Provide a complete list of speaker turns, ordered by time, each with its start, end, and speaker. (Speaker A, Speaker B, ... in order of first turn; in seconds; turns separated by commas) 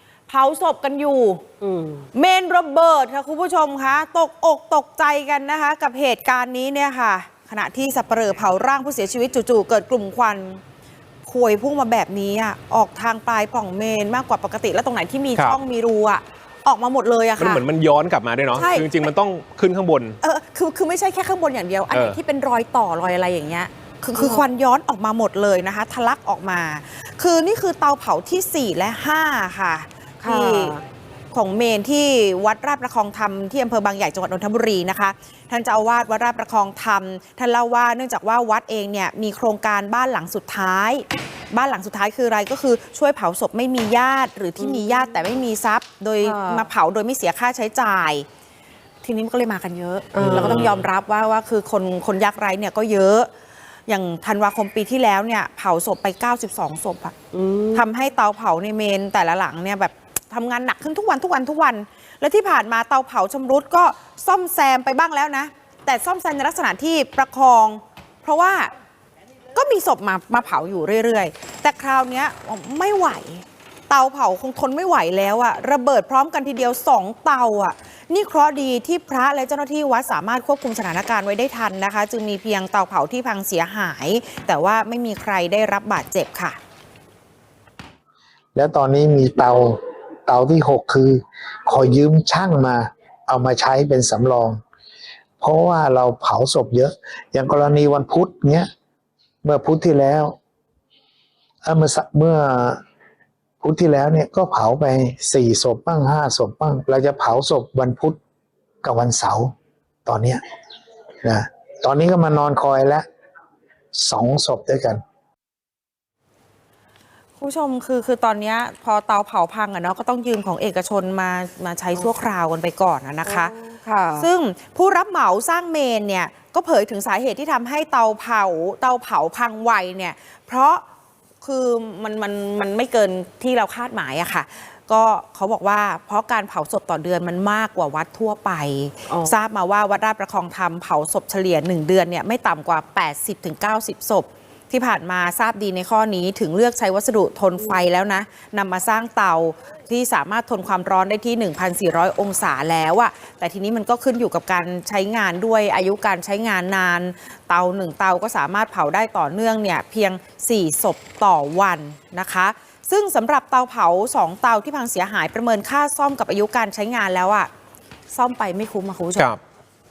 Speaker A: 0.3-1.4, Speaker B: 1.6-2.0, Speaker A: 2.1-10.6, Speaker A: 11.2-17.6, Speaker C: 17.4-20.2, Speaker A: 18.5-18.9, Speaker A: 20.2-30.8, Speaker C: 21.9-22.2, Speaker B: 30.2-30.8, Speaker A: 31.3-48.2, Speaker B: 44.6-44.9, Speaker B: 46.2-46.7, Speaker A: 49.0-53.3, Speaker B: 50.1-50.7, Speaker C: 50.2-50.8, Speaker A: 53.9-57.1, Speaker B: 57.3-57.8, Speaker A: 57.7-68.7, Speaker A: 69.5-86.6, Speaker D: 88.5-94.6, Speaker D: 95.4-98.7, Speaker D: 99.4-100.3, Speaker D: 101.6-102.8, Speaker D: 103.6-108.2, Speaker D: 108.8-109.5, Speaker D: 110.0-110.4, Speaker D: 111.2-113.0, Speaker D: 113.9-115.0, Speaker A: 117.4-123.5, Speaker B: 123.2-124.3, Speaker A: 124.2-130.8, Speaker A: 131.4-167.5, Speaker A: 168.1-169.3